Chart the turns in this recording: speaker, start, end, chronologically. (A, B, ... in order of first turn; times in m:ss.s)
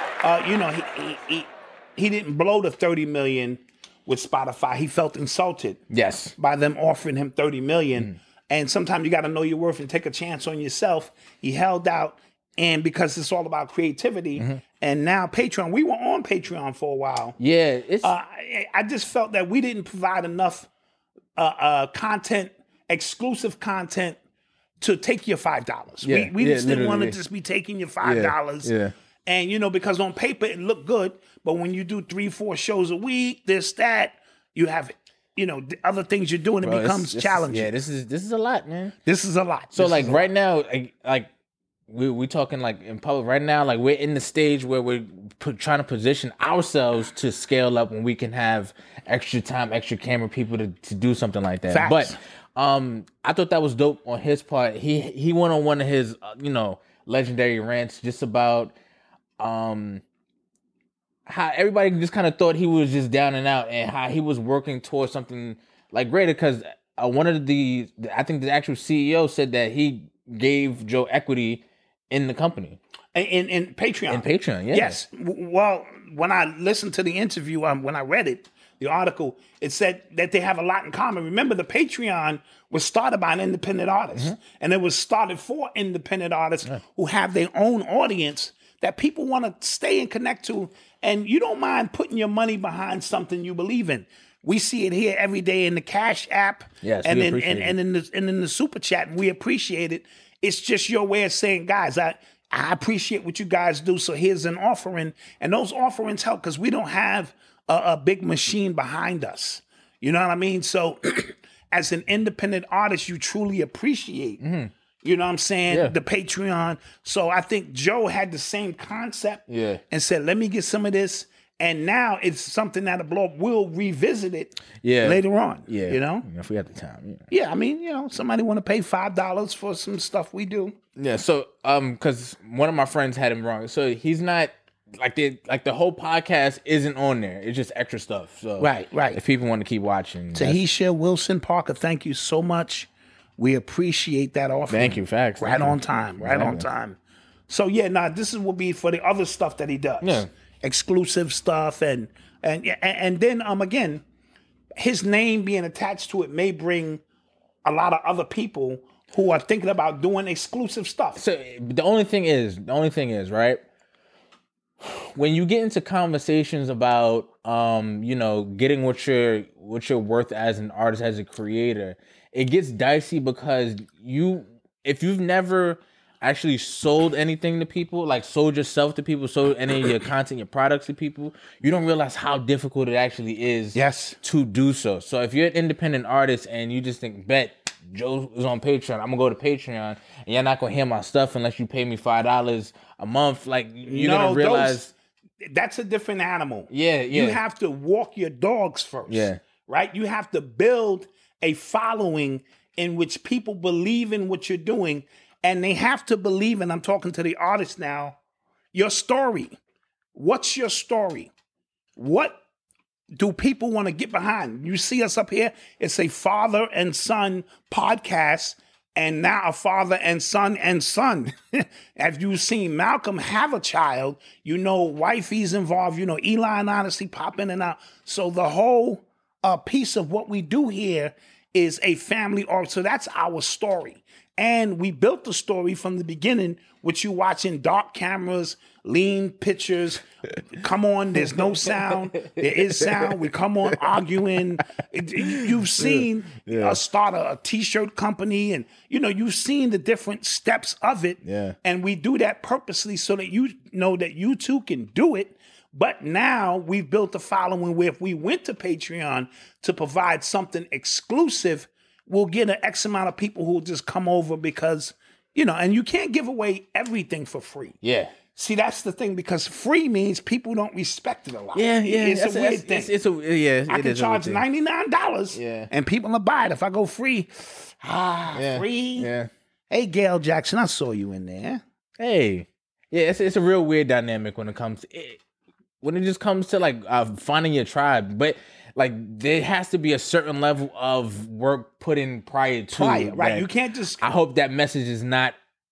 0:00.2-0:05.8 A
0:05.9-0:06.4 B
0:06.4-0:17.4 A
0:17.4-0:18.1 B
0:18.0-0:20.7 A
0:21.4-0:24.2 A
0:24.8-0:28.7 A
0:26.0-0:27.2 B
0:28.0-0:28.9 B
0:29.3-0:37.7 A
0:36.6-0:39.0 B
0:39.1-0:40.2 A
0:39.8-0:41.3 B
0:41.9-0:58.7 B
0:51.7-0:52.2 A
0:59.4-1:00.0 B
1:01.3-1:12.8 B
1:13.1-1:54.4 A
1:14.1-1:15.0 B
1:36.8-1:37.8 B
1:54.4-1:54.7 B
1:55.0-2:06.3 A
1:55.7-1:56.0 B
1:59.5-1:59.8 B
2:04.8-2:07.2 B
2:07.3-2:10.8 A
2:11.0-2:20.6 B
2:18.6-2:19.2 A
2:20.4-2:27.0 A
2:24.7-2:26.6 B
2:27.5-2:34.0 A
2:30.0-2:30.3 B
2:34.8-2:37.0 A
2:37.6-2:41.2 A
2:41.2-2:43.6 B
2:44.8-3:14.9 B
3:03.8-3:04.2 A
3:13.9-3:14.8 A
3:15.4-3:28.2 A
3:16.7-3:17.4 B
3:19.1-3:19.4 B
3:28.7-3:29.6 A
3:30.2-3:31.3 A
3:32.0-3:32.4 A
3:33.2-4:27.8 A
4:02.2-4:03.2 B
4:05.3-4:06.8 B
4:11.2-4:11.6 B
4:27.8-4:28.2 B
4:28.3-4:32.9 A
4:31.5-4:34.4 B
4:33.7-4:39.1 A
4:35.3-4:35.7 B
4:38.3-4:39.3 B
4:39.7-4:41.6 A
4:42.0-4:45.2 B
4:45.8-4:53.5 B
4:52.7-4:54.1 A
4:54.0-4:55.4 B